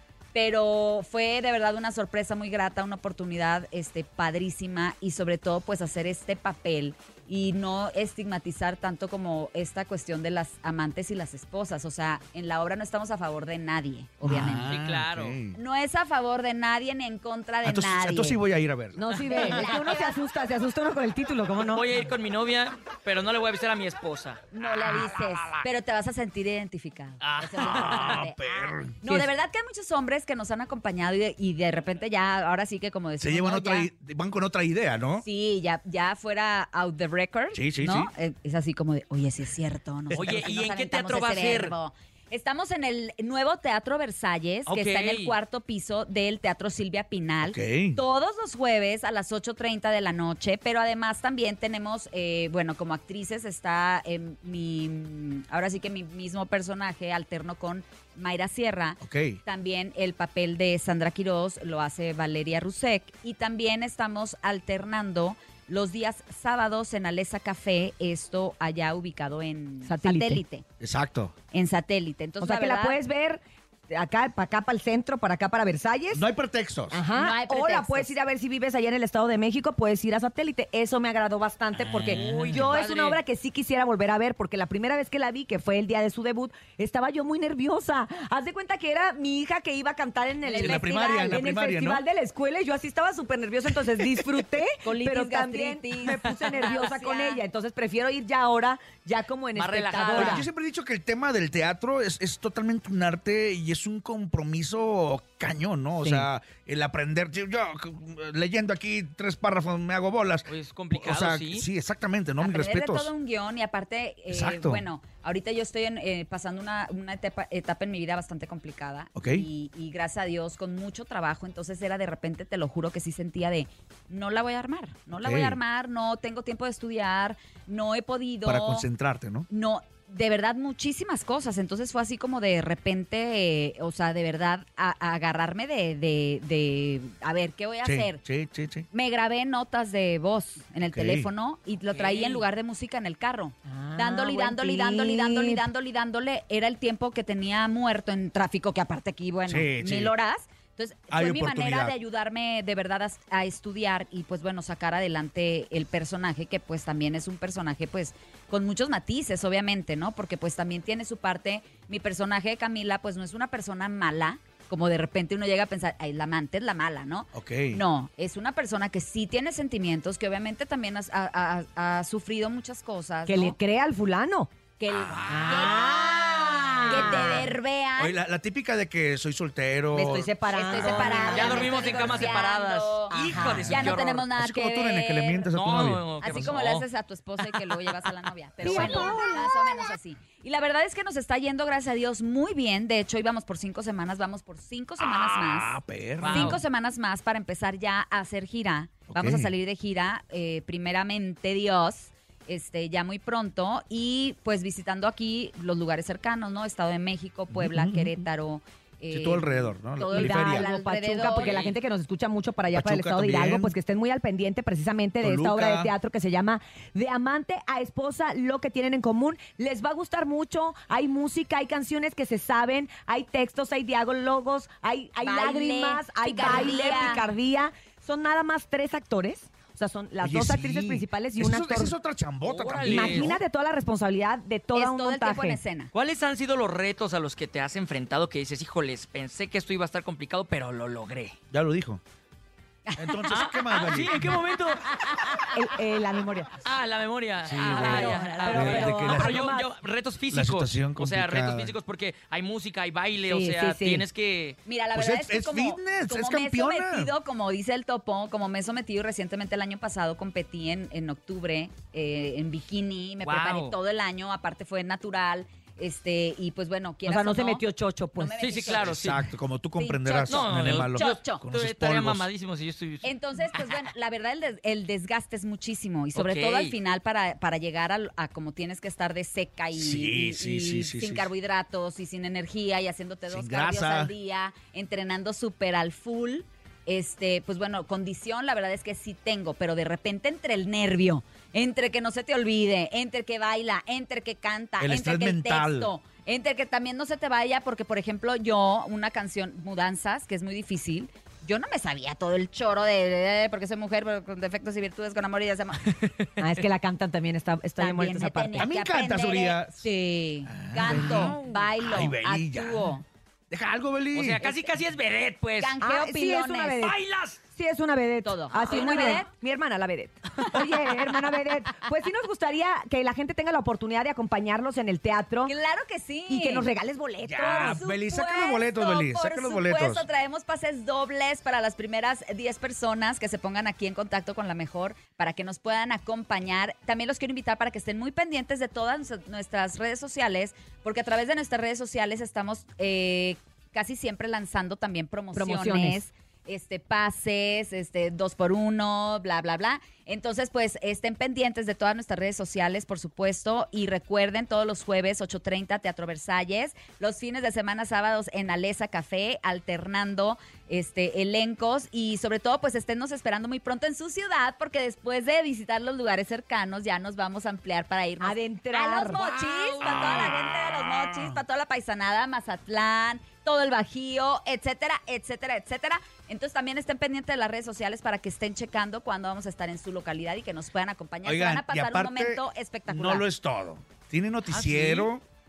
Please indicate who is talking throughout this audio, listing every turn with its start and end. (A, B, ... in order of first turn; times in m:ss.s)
0:00.3-0:14.7 A
0:14.2-0:15.6 B
0:14.7-0:15.4 C
0:15.5-0:18.4 A
0:17.6-0:19.0 B
0:19.0-0:21.9 D
0:19.3-0:20.2 A
0:21.6-0:24.4 C
0:24.5-0:33.9 A
0:27.2-0:28.3 C
0:27.6-0:29.0 B
0:33.2-0:35.2 B
0:35.2-1:10.6 A
0:37.5-0:38.1 B
0:40.1-0:41.8 C
0:44.7-0:45.4 C
0:47.4-0:48.0 B
0:59.0-0:59.4 B
1:09.8-1:10.4 D
1:10.8-1:11.3 B
1:11.5-1:13.0 A
1:12.4-1:16.3 D
1:16.1-1:17.0 B
1:16.9-1:40.4 D
1:17.1-1:18.1 A
1:21.8-1:22.8 B
1:22.2-1:23.2 C
1:30.5-1:31.4 A
1:30.5-1:32.0 B
1:34.8-1:37.4 A
1:39.6-1:40.4 C
1:40.1-1:53.1 B
1:46.0-1:46.3 D
1:50.5-1:51.7 C
1:52.4-2:08.9 A
1:54.3-1:54.8 B
1:59.2-1:59.4 B
2:05.2-2:05.6 B
2:08.4-2:09.5 B
2:09.5-2:18.2 A
2:17.8-2:18.9 B
2:18.9-2:53.6 A
2:20.9-2:21.3 B
2:21.9-2:22.5 C
2:23.7-2:25.6 D
2:29.5-2:30.1 B
2:31.1-2:32.0 B
2:47.3-2:47.8 B
2:53.3-2:54.5 D
2:54.8-2:58.2 A
2:54.9-2:55.5 B
2:55.3-2:57.5 D
2:58.0-3:01.6 B
2:59.9-3:02.3 D
3:00.5-3:05.5 A
3:01.1-3:04.3 C
3:03.1-3:03.6 D
3:03.3-3:06.6 B
3:05.5-3:06.9 C
3:06.2-3:31.7 A
3:07.4-3:07.8 C
3:08.6-3:09.8 D
3:08.6-3:09.0 B
3:15.3-3:16.6 B
3:16.2-3:16.6 C
3:19.1-3:19.5 B
3:27.5-3:28.2 B
3:29.1-3:30.7 B
3:30.1-3:51.9 D
3:31.2-3:31.8 C
3:32.7-3:33.8 B
3:35.2-3:35.9 B
3:45.2-3:47.3 A
3:50.2-3:53.4 B
3:52.4-3:53.3 C
3:52.8-3:55.6 D
3:54.8-3:55.9 A
3:55.9-4:01.4 C
4:01.5-4:02.0 B
4:02.9-4:03.3 A
4:03.0-4:04.4 B
4:03.3-4:04.9 C
4:04.9-4:05.6 A
4:05.5-4:06.5 D
4:06.6-4:14.6 C
4:07.4-4:09.4 B
4:07.6-4:09.7 D
4:07.8-4:09.0 A
4:10.3-4:11.8 B
4:13.2-4:14.1 D
4:14.7-4:27.6 A
4:14.9-4:17.1 B
4:23.2-4:23.8 C
4:27.1-4:28.6 D
4:28.2-4:28.9 A
4:28.4-4:29.3 C
4:28.7-4:32.3 B
4:29.8-4:31.4 A
4:30.3-4:33.8 C
4:33.0-5:06.0 A
4:36.1-4:36.8 C
4:39.7-4:41.3 B
4:43.3-4:44.1 B
4:54.8-4:55.9 B
5:05.9-5:06.3 C
5:06.4-5:08.7 D
5:07.8-5:13.0 A
5:08.6-5:09.9 B
5:10.5-5:13.0 B
5:10.9-5:11.4 D
5:13.5-5:14.4 B
5:14.1-5:15.8 C
5:15.6-5:16.8 A
5:15.8-5:17.0 D
5:16.8-5:17.4 C
5:17.5-5:25.5 D
5:18.2-5:19.3 A
5:20.4-5:20.8 A
5:25.5-5:26.7 A
5:26.3-5:27.8 D
5:27.2-5:30.0 B
5:27.4-6:23.3 A
5:45.3-5:46.0 D
6:08.2-6:09.8 D
6:09.8-6:11.4 B
6:21.2-6:25.2 B
6:24.5-6:25.1 C